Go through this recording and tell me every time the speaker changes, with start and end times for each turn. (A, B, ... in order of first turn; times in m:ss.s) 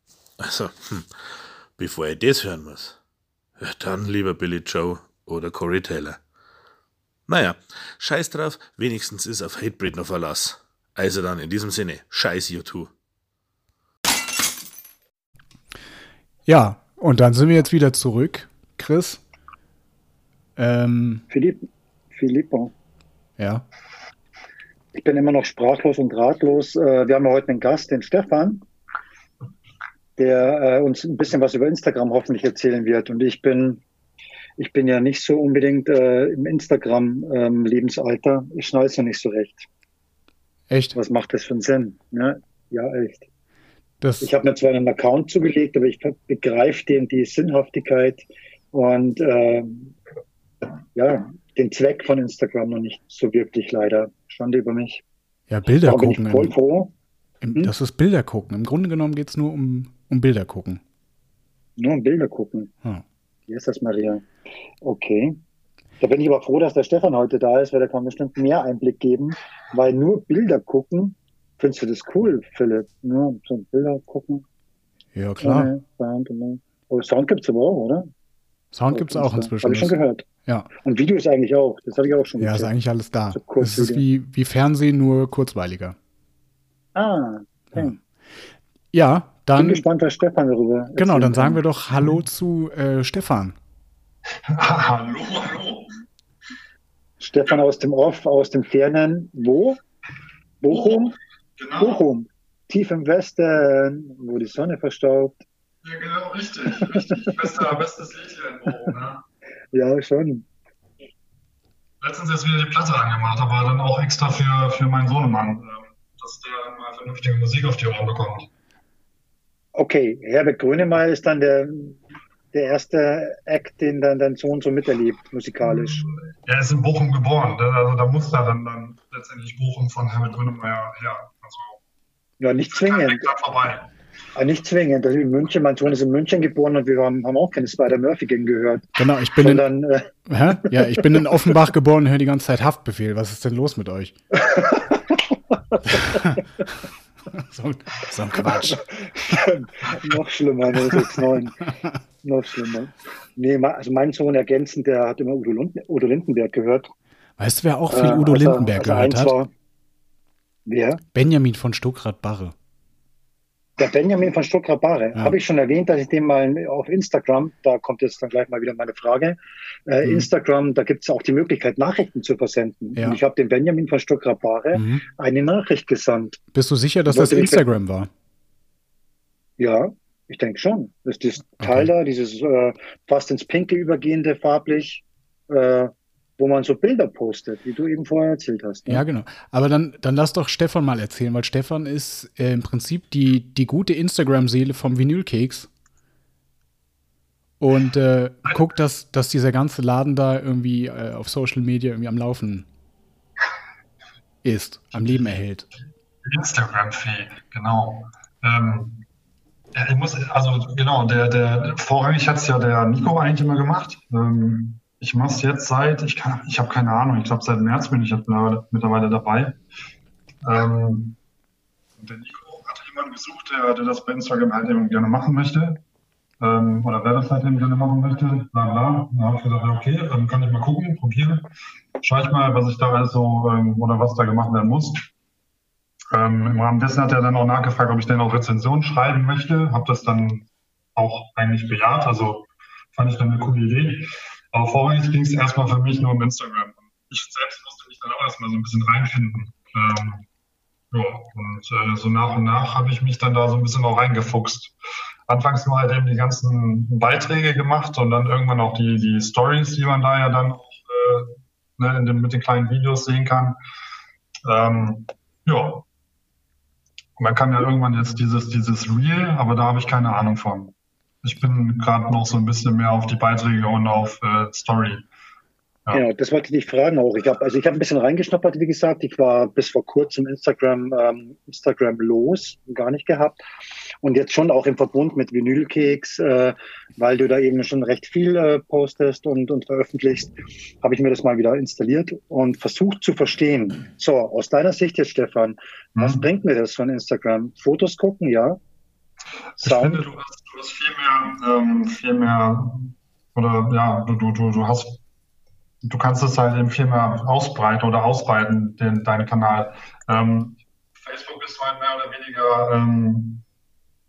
0:00.4-0:01.1 A
0:01.8-0:02.9 A
0:03.6-0:06.2 A
0:07.3-0:12.9 A
0:16.5-0:19.2 B
0:20.6-0:21.2 B
0:21.3-0:22.7 C
0:23.4-0:23.6 B
0:24.9-0:28.6 C
0:30.2-0:33.8 C
0:34.6-0:39.7 C
0:40.7-0:41.0 B
0:40.9-0:43.3 C
0:44.0-0:44.3 B
0:44.2-0:50.0 C
0:50.9-0:55.0 C
0:55.5-0:56.5 B
0:55.8-0:56.9 C
0:57.4-1:00.8 B
1:01.8-1:02.7 C
1:03.5-1:04.2 C
1:04.8-1:05.4 C
1:06.0-1:14.4 C
1:15.1-1:15.7 B
1:15.4-1:18.1 C
1:18.7-1:20.7 B
1:18.9-1:20.2 C
1:20.8-1:22.7 C
1:22.4-1:26.0 B
1:23.3-1:24.0 C
1:26.9-1:28.0 C
1:28.9-1:29.8 B
1:29.6-1:31.6 C
1:31.0-1:33.6 B
1:34.5-1:35.9 D
1:37.2-1:39.8 C
1:40.6-1:41.2 C
1:41.6-1:42.0 D
1:41.8-1:45.4 C
1:45.8-1:49.2 D
1:49.7-1:50.4 C
1:52.0-1:58.5 D
1:59.8-2:02.0 C
2:02.5-2:06.0 C
2:05.8-2:11.8 D
2:12.4-2:13.3 C
2:12.7-2:13.9 D
2:14.3-2:20.1 C
2:19.0-2:19.6 B
2:20.2-2:24.2 B
2:20.6-2:21.0 C
2:24.4-2:24.9 C
2:25.7-2:26.3 C
2:25.9-2:26.4 B
2:27.3-2:29.3 B
2:28.7-2:31.6 C
2:30.8-2:31.2 B
2:32.2-2:36.9 C
2:37.4-2:39.3 B
2:37.9-2:39.5 C
2:40.6-2:41.0 C
2:41.1-2:42.5 B
2:43.8-2:56.4 C
2:54.7-2:55.0 B
2:56.5-2:58.1 B
2:57.1-2:57.6 C
2:59.6-3:09.0 C
3:01.6-3:01.9 B
3:08.9-3:15.7 B
3:17.6-3:22.7 B
3:24.4-3:25.7 B
3:26.2-3:29.0 D
3:29.7-3:39.6 D
3:40.4-3:41.2 D
3:42.0-3:45.8 D
3:46.4-3:55.1 D
3:56.1-4:10.2 D
4:10.9-4:14.7 D
4:15.3-4:23.6 D
4:24.4-4:25.8 D
4:27.2-4:35.1 D
4:35.9-4:43.4 C
4:44.0-4:58.6 C
4:56.0-4:56.2 D
4:59.6-5:05.0 D
4:59.6-5:00.0 C
5:05.8-5:13.4 D